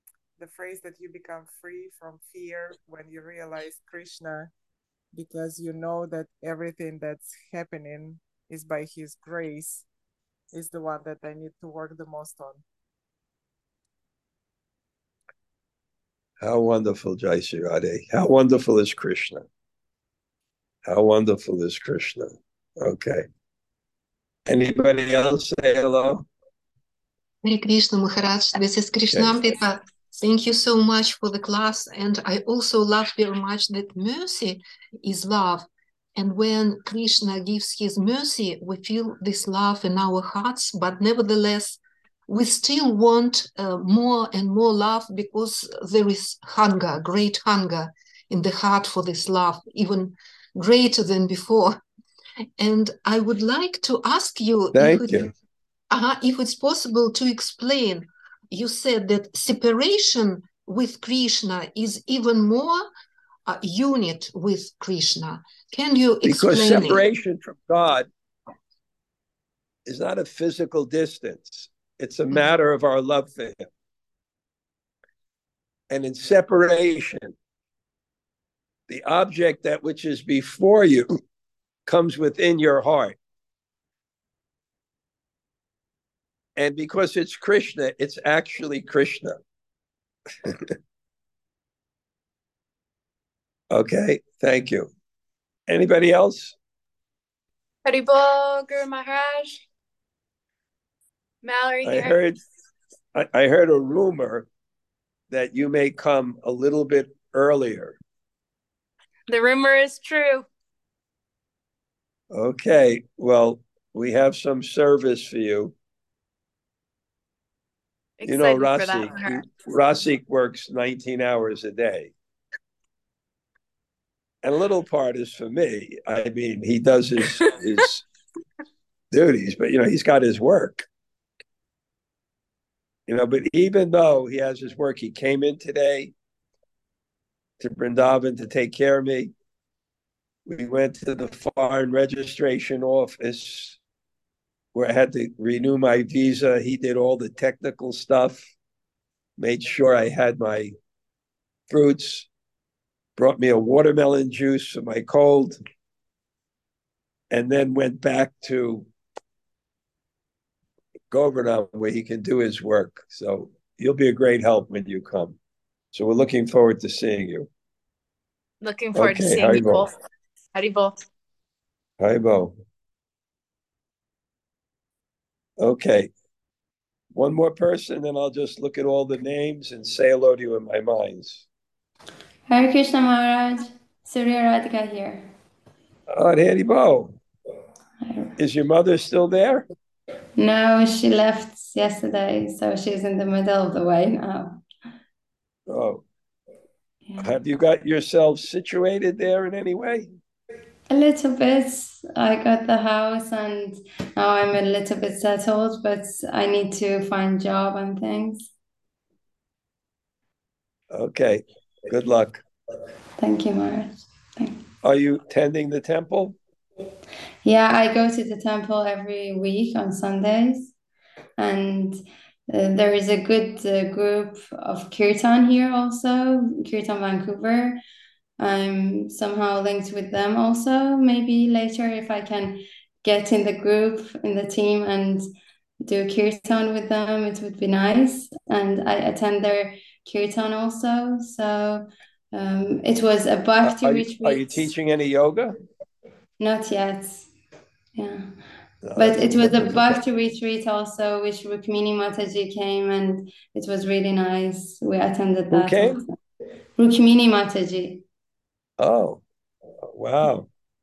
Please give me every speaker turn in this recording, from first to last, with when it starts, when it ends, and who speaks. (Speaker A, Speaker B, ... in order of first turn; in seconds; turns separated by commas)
Speaker A: 0.4-4.5, Speaker A: 5.1-9.8, Speaker A: 10.5-12.6, Speaker B: 16.4-19.5, Speaker B: 20.9-23.3, Speaker B: 24.5-26.3, Speaker C: 27.4-51.8, Speaker C: 52.6-55.3, Speaker B: 54.7-55.3, Speaker C: 55.9-62.9, Speaker C: 63.5-67.0, Speaker B: 66.2-68.1, Speaker B: 69.9-73.7, Speaker B: 75.9-77.3, Speaker B: 78.9-81.1, Speaker B: 81.9-83.2, Speaker B: 86.6-89.4, Speaker B: 90.5-90.7, Speaker B: 93.7-94.9, Speaker B: 95.7-96.6, Speaker D: 97.8-99.6, Speaker D: 101.4-102.2, Speaker B: 101.8-102.4, Speaker B: 103.1-104.5, Speaker B: 105.3-108.0, Speaker D: 109.3-110.5, Speaker B: 112.3-115.7, Speaker D: 118.2-119.5, Speaker B: 118.2-122.1, Speaker B: 124.4-128.0, Speaker B: 129.1-130.9, Speaker B: 133.1-136.1, Speaker B: 137.6-139.3, Speaker B: 140.5-143.8, Speaker B: 144.7-148.5, Speaker B: 149.4-150.7, Speaker B: 151.7-152.3, Speaker B: 153.2-155.6, Speaker B: 157.3-158.9, Speaker B: 161.1-165.4, Speaker B: 165.9-167.5, Speaker D: 168.6-169.9, Speaker B: 168.9-169.9, Speaker D: 170.5-171.0, Speaker B: 172.0-172.5, Speaker B: 175.6-176.1, Speaker B: 177.1-181.5, Speaker E: 182.5-185.3, Speaker B: 186.1-187.2, Speaker E: 188.0-188.3, Speaker B: 188.4-189.7, Speaker E: 190.4-194.6, Speaker B: 195.7-196.0, Speaker B: 197.2-200.1, Speaker E: 200.9-208.5, Speaker B: 210.9-212.4, Speaker E: 213.2-214.6, Speaker B: 214.8-216.4, Speaker E: 217.4-220.7, Speaker E: 221.4-227.8, Speaker E: 228.4-235.2, Speaker E: 235.8-244.7, Speaker B: 243.6-245.6, Speaker E: 246.4-247.3, Speaker E: 247.9-248.3, Speaker B: 248.8-250.0, Speaker E: 249.0-256.1, Speaker B: 255.5-256.0, Speaker E: 256.8-258.0, Speaker B: 258.8-259.2, Speaker B: 259.8-260.5